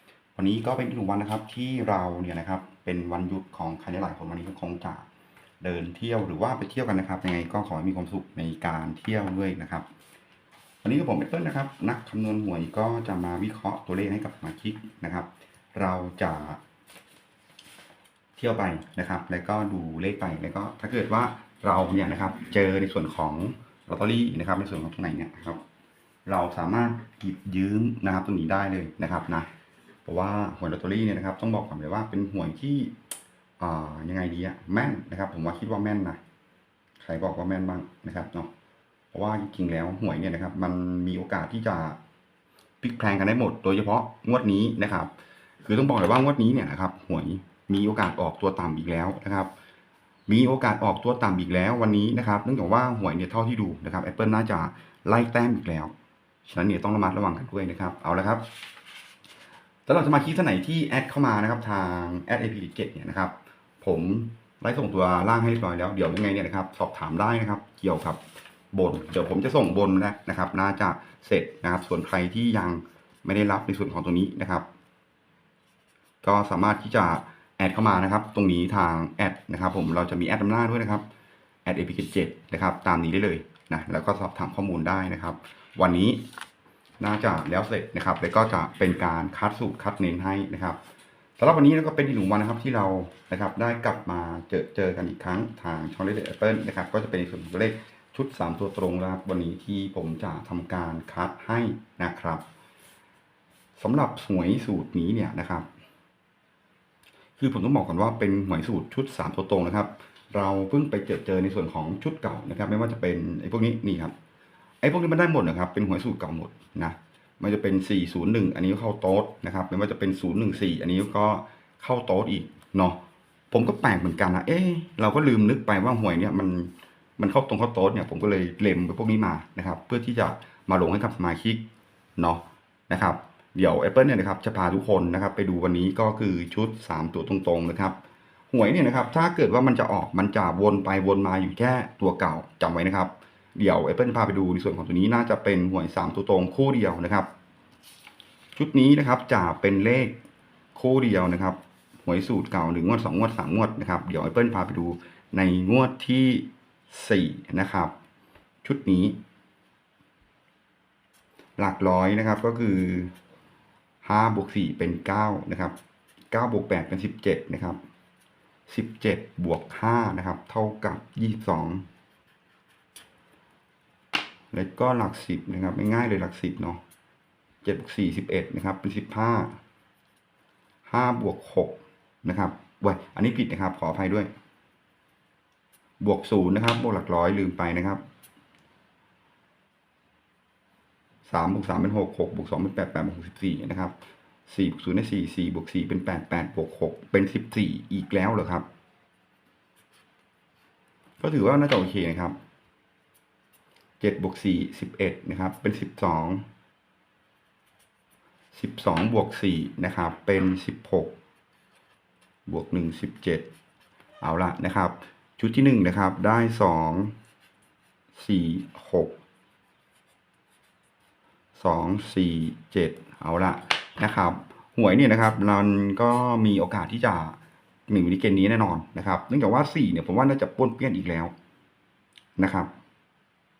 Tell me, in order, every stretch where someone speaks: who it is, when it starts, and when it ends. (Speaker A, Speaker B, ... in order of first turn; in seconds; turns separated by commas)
Speaker A: 0.3-5.1, Speaker A: 5.6-9.9, Speaker A: 10.8-16.6, Speaker A: 18.4-25.6, Speaker A: 26.3-29.5, Speaker A: 30.1-32.9, Speaker A: 33.6-36.2, Speaker A: 37.0-38.5, Speaker A: 39.1-42.0, Speaker A: 42.8-45.1, Speaker A: 45.6-49.5, Speaker A: 50.3-55.9, Speaker A: 56.5-58.5, Speaker A: 59.9-68.2, Speaker A: 68.7-74.7, Speaker A: 76.2-81.0, Speaker A: 81.7-86.2, Speaker A: 87.0-90.8, Speaker A: 91.4-102.4, Speaker A: 103.8-105.7, Speaker A: 107.4-114.1, Speaker A: 114.8-123.0, Speaker A: 123.5-131.6, Speaker A: 132.2-138.0, Speaker A: 138.5-147.3, Speaker A: 148.6-150.2, Speaker A: 150.7-157.9, Speaker A: 158.6-159.2, Speaker A: 161.6-163.1, Speaker A: 164.0-165.8, Speaker A: 166.3-167.8, Speaker A: 168.7-171.9, Speaker A: 174.5-176.8, Speaker A: 177.6-179.6, Speaker A: 180.9-184.3, Speaker A: 186.0-188.0, Speaker A: 191.3-193.9, Speaker A: 194.5-198.7, Speaker A: 201.2-202.3, Speaker A: 204.0-206.4, Speaker A: 208.5-211.1, Speaker A: 212.5-213.5, Speaker A: 214.2-217.1, Speaker A: 218.2-219.1, Speaker A: 221.6-227.4, Speaker A: 227.9-231.3, Speaker A: 232.4-232.7